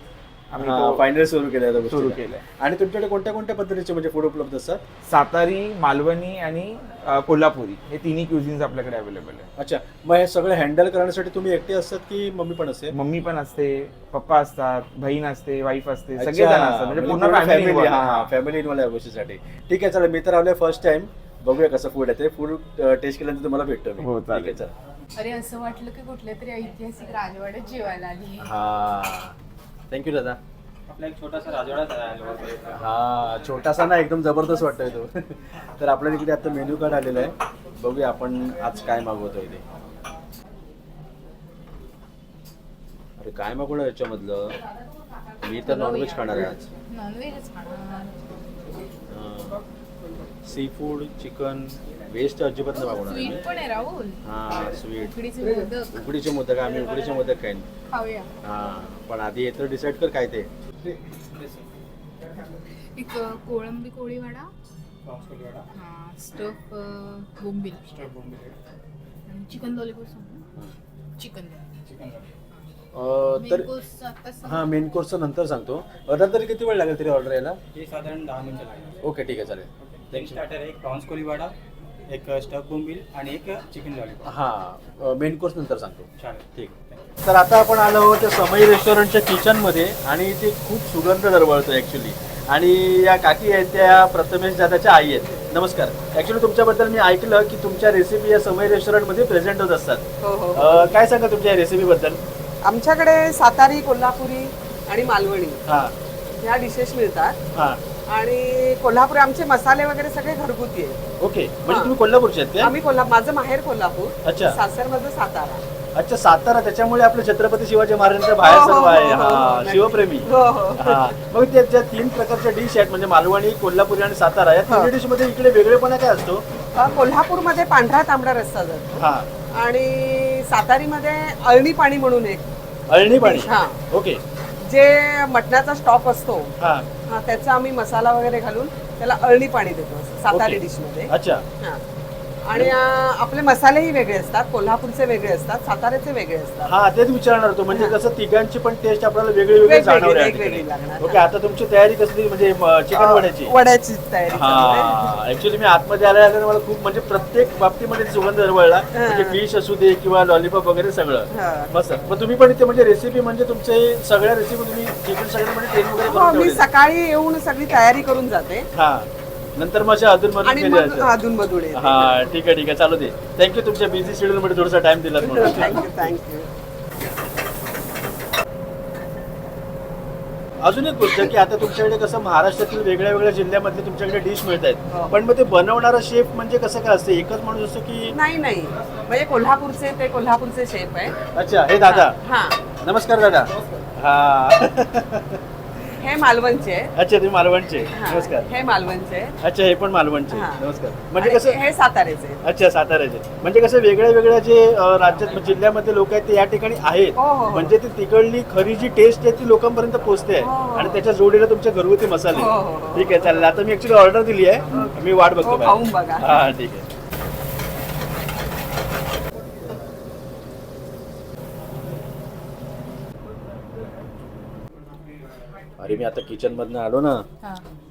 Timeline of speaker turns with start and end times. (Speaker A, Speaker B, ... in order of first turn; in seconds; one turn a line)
Speaker A: 0.5-1.0
Speaker B: 0.6-4.8
Speaker A: 1.9-2.4
Speaker A: 5.0-9.5
Speaker B: 9.6-12.9
Speaker A: 12.9-18.3
Speaker B: 16.1-24.7
Speaker A: 24.0-24.6
Speaker C: 25.1-28.5
Speaker B: 28.4-29.4
Speaker B: 29.9-30.4
Speaker D: 30.9-32.9
Speaker B: 32.7-39.6
Speaker B: 43.2-44.6
Speaker B: 45.4-46.7
Speaker C: 45.6-48.6
Speaker B: 49.1-49.6
Speaker B: 50.5-53.4
Speaker C: 52.8-54.2
Speaker B: 54.2-55.1
Speaker C: 55.0-56.0
Speaker B: 55.9-57.7
Speaker C: 57.9-58.3
Speaker B: 58.4-60.5
Speaker D: 61.2-61.7
Speaker C: 62.9-64.5
Speaker D: 65.1-65.7
Speaker C: 65.7-67.8
Speaker D: 67.8-68.6
Speaker C: 69.3-70.4
Speaker C: 71.2-71.7
Speaker D: 71.9-72.3
Speaker B: 72.9-73.7
Speaker C: 73.4-74.7
Speaker B: 74.4-77.6
Speaker D: 77.7-79.0
Speaker B: 79.0-80.4
Speaker D: 79.8-81.5
Speaker D: 82.1-84.3
Speaker B: 84.2-86.7
Speaker D: 86.2-87.1
Speaker B: 87.2-100.0
Speaker E: 100.2-100.9
Speaker B: 100.5-102.2
Speaker E: 102.6-105.6
Speaker B: 105.7-105.9
Speaker E: 106.4-107.4
Speaker B: 107.5-107.8
Speaker E: 108.1-111.0
Speaker B: 111.2-112.7
Speaker E: 111.7-111.9
Speaker E: 112.6-115.6
Speaker B: 114.2-114.6
Speaker B: 116.0-126.5
Speaker E: 118.4-121.1
Speaker E: 126.7-132.5
Speaker B: 129.0-129.3
Speaker B: 132.9-134.2
Speaker E: 133.2-133.8
Speaker E: 134.6-136.5
Speaker B: 136.6-136.9
Speaker E: 137.1-141.8
Speaker B: 140.3-141.4
Speaker E: 142.4-146.7
Speaker B: 146.7-153.5
Speaker E: 147.7-148.0
Speaker E: 149.6-151.2
Speaker E: 152.9-155.0
Speaker B: 154.3-166.7
Speaker E: 158.9-159.4
Speaker E: 161.3-161.7
Speaker E: 166.0-168.7
Speaker B: 168.8-171.1
Speaker E: 170.4-172.2
Speaker B: 171.7-176.1
Speaker E: 175.2-176.5
Speaker B: 180.6-188.2
Speaker E: 184.9-185.2
Speaker E: 188.1-191.2
Speaker B: 191.3-192.2
Speaker E: 191.8-192.6
Speaker B: 192.8-195.4
Speaker E: 196.0-196.9
Speaker B: 197.0-198.5
Speaker E: 197.9-199.3
Speaker B: 199.4-201.6
Speaker E: 200.3-200.6
Speaker E: 201.2-202.4
Speaker B: 202.4-216.9
Speaker E: 207.2-207.8
Speaker E: 210.4-211.1
Speaker E: 212.3-213.3
Speaker E: 214.7-216.4
Speaker B: 225.8-227.2